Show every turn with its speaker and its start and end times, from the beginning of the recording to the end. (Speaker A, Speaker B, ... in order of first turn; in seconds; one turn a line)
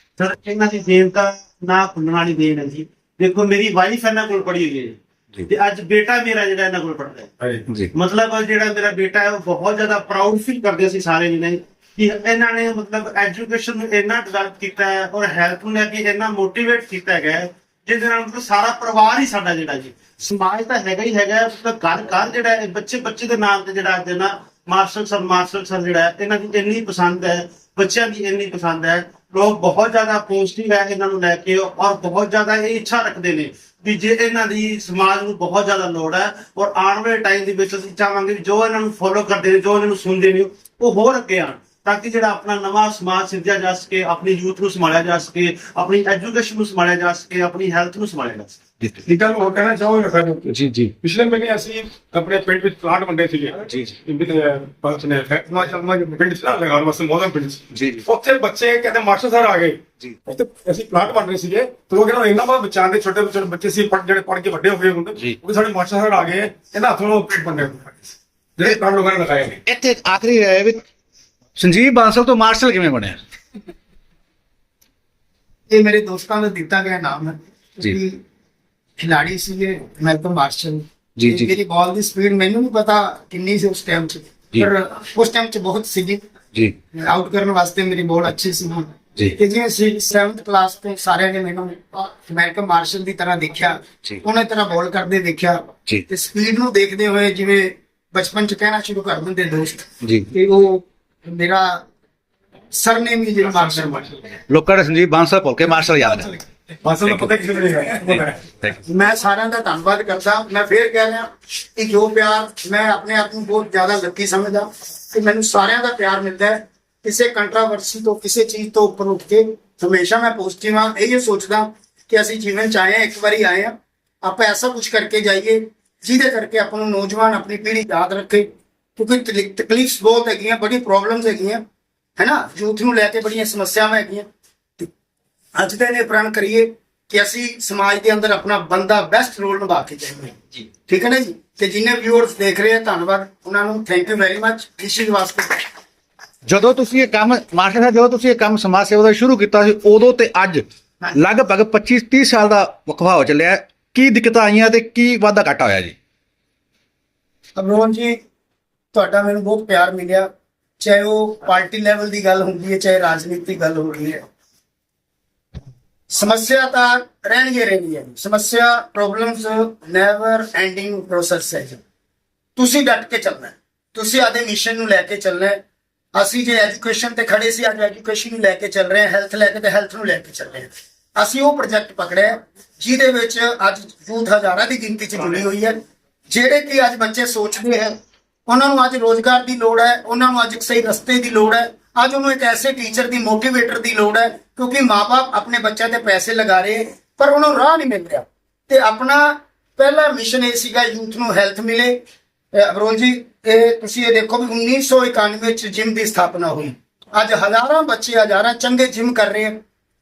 Speaker A: 0.2-7.3
Speaker B: 7.4-7.7
Speaker A: 7.9-48.6
Speaker B: 49.0-69.6
Speaker C: 50.5-50.9
Speaker D: 55.5-56.2
Speaker C: 57.7-58.0
Speaker C: 69.7-70.8
Speaker C: 71.6-73.2
Speaker D: 75.7-78.2
Speaker D: 79.0-86.2
Speaker C: 81.2-81.5
Speaker D: 86.9-101.8
Speaker D: 102.7-104.1
Speaker B: 103.5-104.1
Speaker C: 104.5-106.3
Speaker B: 106.8-108.4
Speaker D: 108.8-131.6
Speaker D: 132.2-134.3
Speaker D: 135.6-145.7
Speaker C: 146.5-155.9
Speaker D: 157.6-158.2
Speaker D: 158.9-160.3
Speaker D: 160.8-164.2
Speaker D: 166.1-171.8
Speaker D: 172.6-175.6
Speaker D: 176.2-185.8
Speaker D: 186.3-187.9
Speaker D: 188.5-202.0
Speaker D: 202.5-209.6